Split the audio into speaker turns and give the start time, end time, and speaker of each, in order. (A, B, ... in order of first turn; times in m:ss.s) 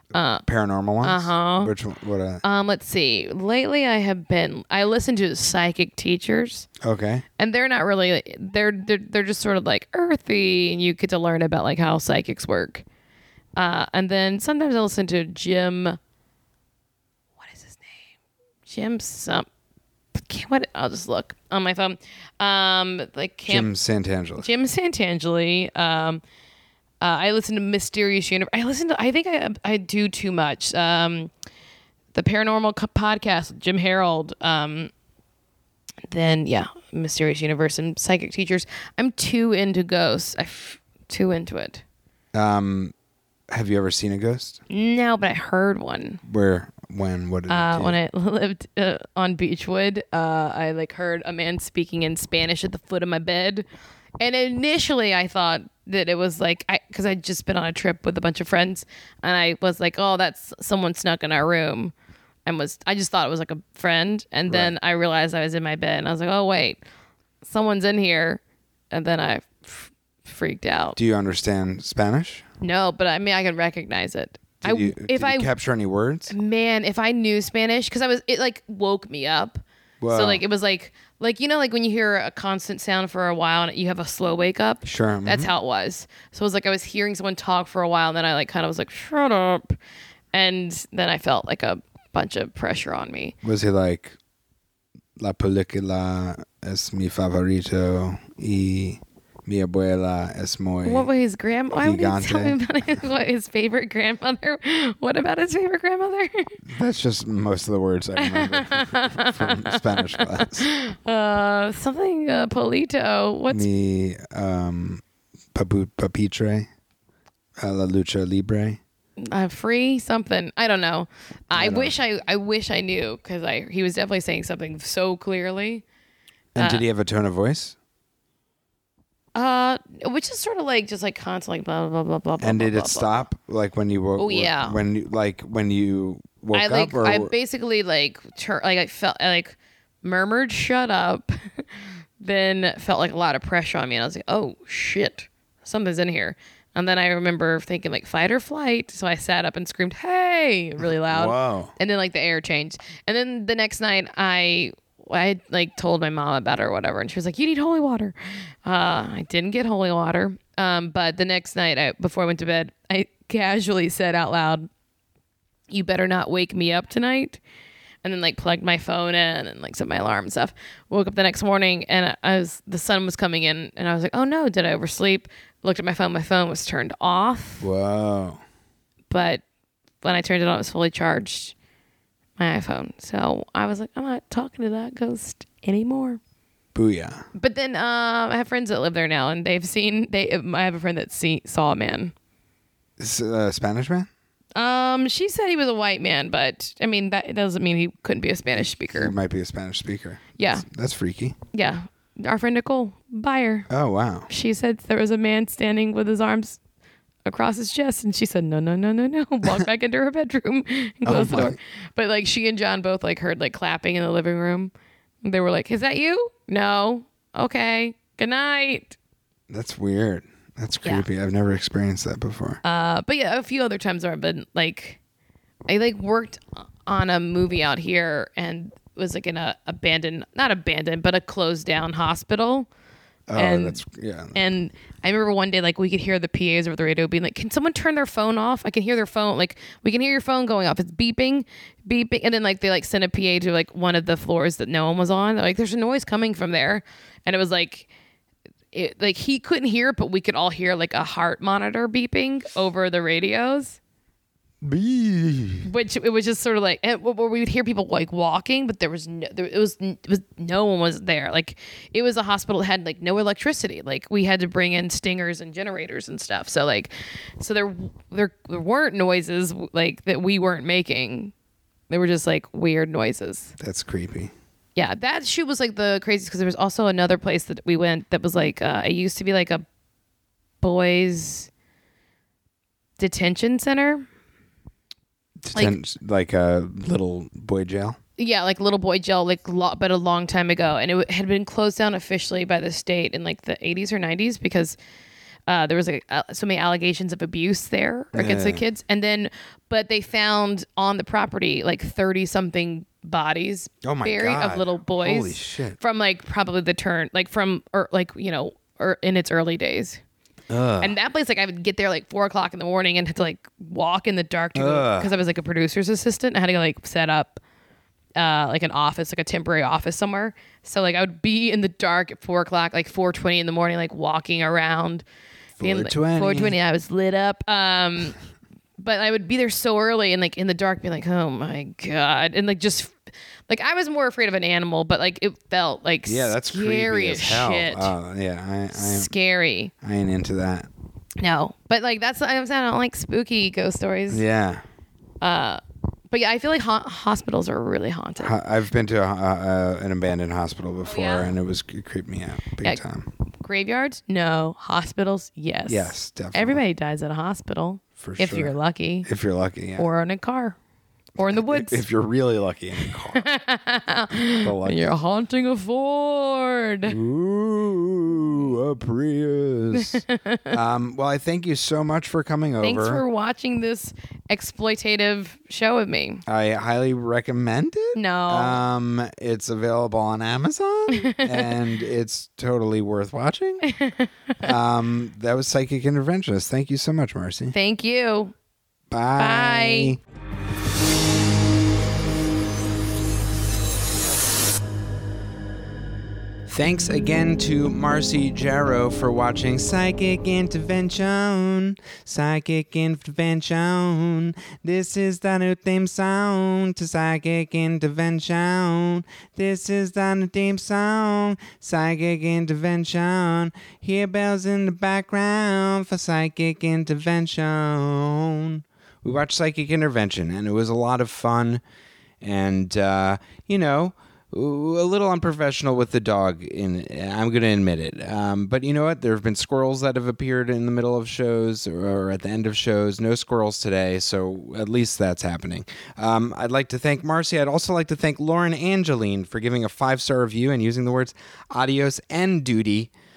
0:00.1-0:00.4 A
0:00.4-0:02.4 B
0:01.0-0:01.7 A
0:02.4-0:06.7 A
0:06.8-0:07.2 B
0:07.4-0:12.8 A
0:13.6-0:16.0 A
0:17.4-0:18.0 A
0:18.7-0:19.5 A
0:20.2-0:23.7 A
0:23.5-0:24.5 B
0:24.4-0:26.2 A
0:27.0-0:31.3 A
0:32.1-0:34.9 A
0:36.1-0:41.8 A
0:42.3-0:42.9 B
0:43.5-0:44.6 B
0:44.7-0:46.2 A
0:46.2-0:48.0 B
0:47.5-0:53.7 A
0:54.2-1:01.9 A
1:02.4-1:06.8 A
1:04.5-1:04.7 B
1:07.4-1:11.0 A
1:11.0-1:12.4 B
1:12.6-1:15.5 A
1:14.6-1:16.3 B
1:16.3-1:29.8 A
1:20.0-1:20.4 B
1:24.8-1:25.5 B
1:30.3-1:33.4 A
1:33.4-1:34.2 B
1:35.2-1:41.1 B
1:40.8-1:46.6 A
1:41.8-1:42.6 B
1:46.7-1:50.7 B
1:48.2-1:53.7 A
1:53.5-1:55.0 B
1:55.5-1:56.7 B
1:57.6-1:58.8 B
1:59.2-2:05.8 A
2:01.5-2:02.0 B
2:06.6-2:07.8 B
2:06.6-2:06.8 A
2:09.4-2:13.2 A
2:12.4-2:17.3 B
2:14.2-2:14.8 A
2:16.5-2:21.7 A
2:22.2-2:38.1 A
2:30.8-2:31.7 B
2:38.6-2:44.7 A
2:45.7-2:47.4 A
2:48.0-2:57.7 A
2:57.6-2:58.4 B
2:59.1-2:59.4 A
3:00.0-3:01.6 A
3:02.4-3:06.2 A
3:06.8-3:07.2 B
3:07.4-3:12.1 A
3:13.0-3:14.1 B
3:14.6-3:19.2 A
3:18.6-3:21.4 B
3:20.4-3:20.7 A
3:21.5-3:23.7 A
3:23.7-3:24.3 B
3:24.3-3:26.6 A
3:27.2-3:34.7 A
3:31.0-3:31.6 B
3:35.2-3:39.0 A
3:39.5-3:42.6 B
3:42.6-3:45.0 A
3:45.7-3:52.7 A
3:53.3-3:54.4 B
3:53.4-3:53.8 A
3:54.4-4:07.9 A
4:08.7-4:13.8 A
4:14.6-4:15.7 B
4:15.6-4:31.3 A
4:31.9-4:33.5 A
4:33.6-4:34.3 B
4:34.8-4:39.6 A
4:40.6-4:41.5 A
4:43.0-4:44.1 A
4:45.4-4:48.0 B
4:48.2-4:54.8 A
4:55.5-5:10.0 A
4:58.1-4:58.6 B
5:03.8-5:05.8 B
5:10.5-5:11.0 B
5:10.8-5:17.4 A
5:14.6-5:15.1 B
5:18.2-5:25.0 A
5:25.6-5:26.6 B
5:25.6-5:28.2 A
5:28.8-5:33.0 A
5:33.5-5:37.9 A
5:36.1-5:39.1 B
5:38.7-5:39.7 A
5:39.8-5:40.7 B
5:41.2-5:44.2 A
5:44.1-5:44.6 B
5:45.2-5:48.3 A
5:48.2-5:53.1 B
5:50.8-5:51.3 A
5:53.4-5:59.1 A
5:55.7-5:56.6 B
5:58.0-5:59.9 B
5:59.8-6:00.6 A
6:01.2-6:01.8 A
6:01.2-6:03.3 B
6:02.8-6:07.0 A
6:04.4-6:04.9 B
6:06.9-6:13.0 B
6:09.8-6:10.5 A
6:12.6-6:16.2 A
6:16.3-6:23.6 B
6:18.0-6:18.6 A
6:20.9-6:21.5 A
6:23.6-6:24.5 A
6:24.4-6:27.6 B
6:27.5-6:28.3 A
6:28.9-6:30.0 B
6:29.2-6:30.0 A
6:36.5-7:01.6 B
7:02.2-7:22.9 B